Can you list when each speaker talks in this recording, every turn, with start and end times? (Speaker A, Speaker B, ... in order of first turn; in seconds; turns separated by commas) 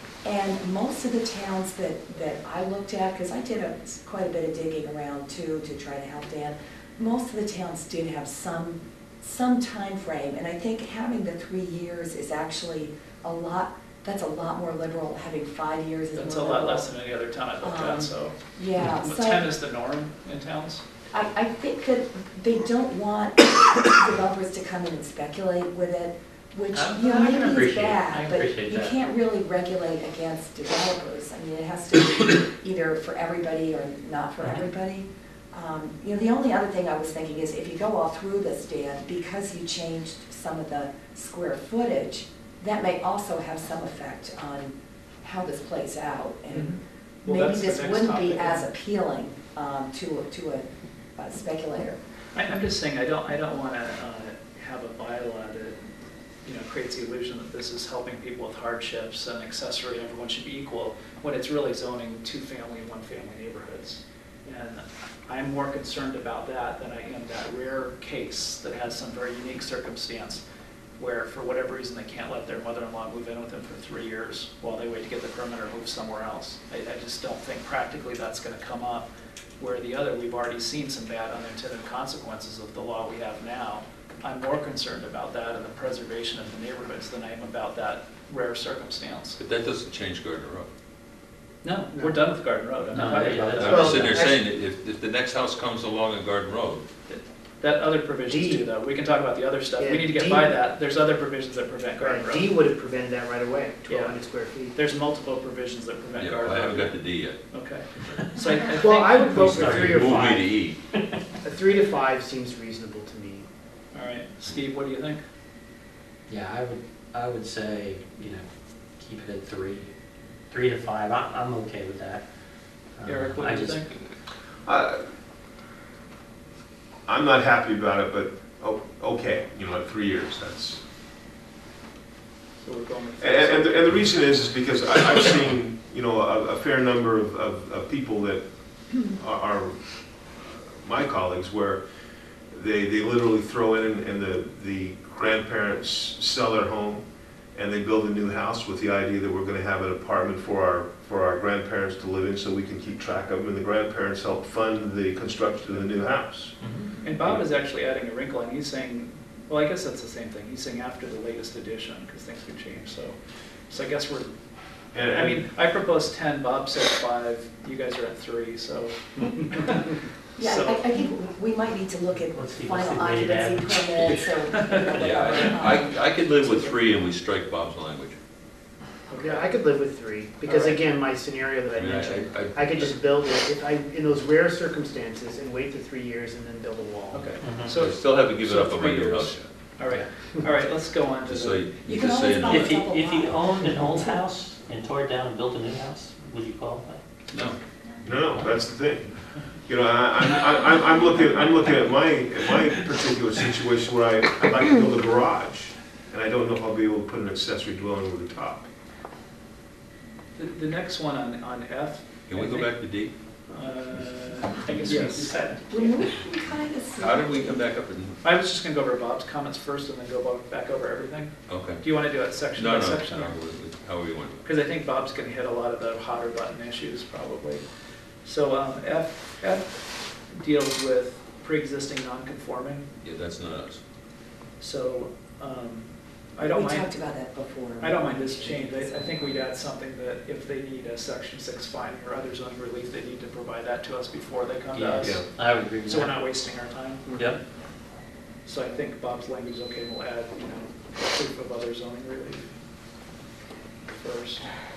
Speaker A: 0.2-16.9, Speaker B: 16.2-18.4, Speaker A: 17.6-19.5, Speaker B: 19.0-20.8, Speaker A: 21.1-50.7, Speaker C: 26.7-29.0, Speaker B: 46.5-48.7, Speaker A: 51.2-52.0, Speaker B: 52.4-55.8, Speaker B: 56.4-70.4, Speaker B: 71.0-79.1, Speaker B: 79.6-89.4, Speaker D: 89.4-90.7, Speaker B: 91.6-94.3, Speaker C: 92.9-94.2, Speaker D: 93.6-96.8, Speaker E: 93.6-94.3, Speaker B: 97.1-102.5, Speaker E: 98.3-98.6, Speaker E: 99.8-100.6, Speaker E: 102.0-104.7, Speaker B: 103.9-104.2, Speaker B: 104.7-107.0, Speaker D: 106.2-107.4, Speaker B: 107.5-109.9, Speaker E: 108.7-110.5, Speaker D: 109.4-110.8, Speaker C: 109.5-110.0, Speaker E: 111.4-113.5, Speaker B: 113.9-115.2, Speaker C: 116.3-118.5, Speaker C: 119.0-119.9, Speaker C: 120.5-122.2, Speaker C: 123.0-123.8, Speaker B: 123.0-123.9, Speaker F: 124.7-125.0, Speaker F: 127.1-130.8, Speaker B: 132.6-134.0, Speaker F: 133.2-138.4, Speaker F: 139.0-139.8, Speaker F: 140.8-141.8, Speaker F: 142.5-147.0, Speaker F: 147.6-156.5, Speaker B: 157.0-163.2, Speaker B: 163.7-164.3, Speaker F: 164.9-165.4, Speaker B: 165.1-170.8, Speaker A: 170.4-176.8, Speaker C: 172.3-174.2, Speaker D: 174.9-178.2, Speaker B: 179.1-179.5, Speaker E: 179.2-187.4, Speaker B: 180.4-180.8, Speaker D: 181.7-183.0, Speaker B: 187.1-191.8, Speaker C: 187.4-187.7, Speaker D: 187.7-189.4, Speaker D: 191.2-192.7, Speaker A: 191.9-194.2, Speaker C: 192.4-197.0, Speaker F: 198.0-199.1, Speaker F: 199.7-208.7, Speaker B: 210.4-212.7, Speaker D: 212.3-213.1, Speaker B: 213.5-216.1, Speaker A: 215.7-217.7, Speaker D: 217.0-218.2, Speaker B: 218.2-223.4, Speaker D: 221.5-221.8, Speaker D: 222.6-224.4, Speaker B: 224.4-227.6, Speaker B: 228.2-232.9, Speaker D: 233.0-233.8, Speaker B: 234.6-236.9, Speaker A: 236.4-239.4, Speaker B: 237.8-247.2, Speaker C: 244.7-246.1, Speaker B: 248.4-252.5, Speaker B: 253.9-254.4